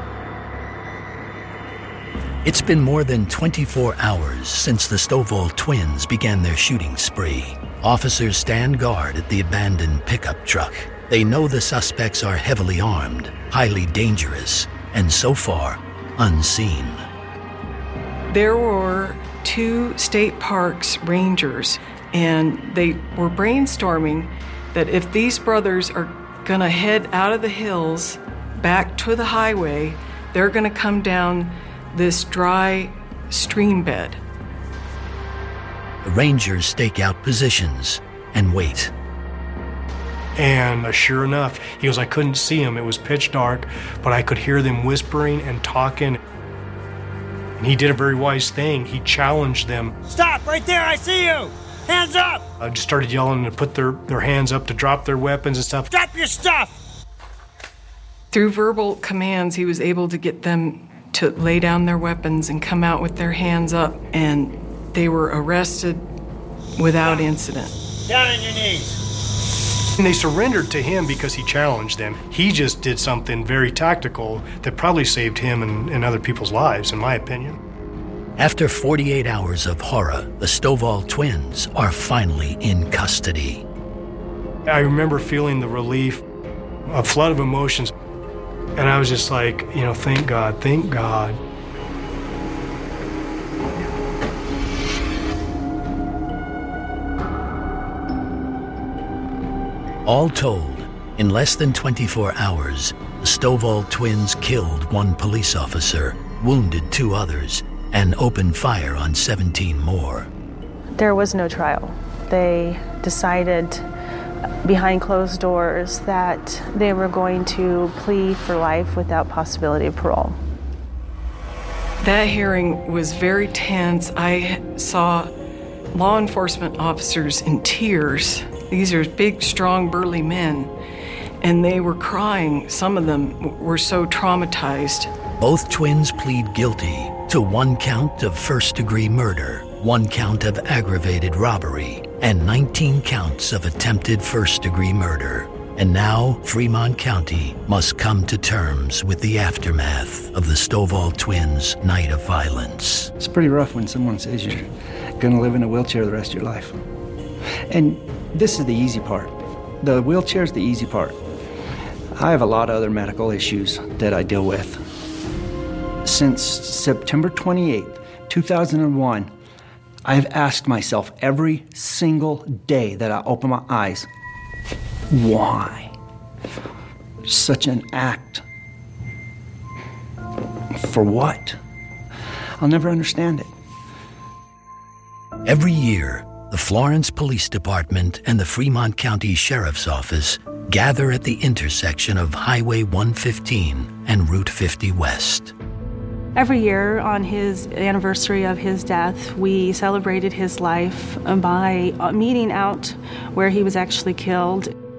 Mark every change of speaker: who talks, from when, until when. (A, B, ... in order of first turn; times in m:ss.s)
0:02.4-0:17.0 A
0:18.3-0:34.2 B
0:36.0-0:38.9 A
0:40.4-0:46.2 C
0:47.6-0:50.0 C
0:50.0-0:52.4 D
0:52.6-0:55.9 C
0:55.9-0:56.7 D
0:58.3-1:06.0 B
1:06.8-1:07.8 B
1:08.1-1:09.0 D
1:10.0-1:17.6 C
1:18.4-1:23.6 A
1:24.7-1:26.2 C
1:26.9-1:27.9 C
1:28.8-1:31.4 C
1:40.0-1:50.3 A
1:51.0-1:53.8 E
1:54.6-2:00.4 E
2:02.0-2:05.3 B
2:05.9-2:10.7 B
2:11.4-2:15.1 B
2:15.4-2:33.1 A
2:33.2-2:34.7 F
2:35.2-2:36.8 F
2:37.7-2:41.2 F
2:42.2-2:44.8 F
2:46.0-2:49.3 F
2:50.0-2:54.1 F
2:55.1-2:55.9 F
2:57.3-2:58.4 F
3:00.8-3:01.6 F
3:02.6-3:03.5 F
3:05.4-3:15.5 A
3:16.4-3:24.7 E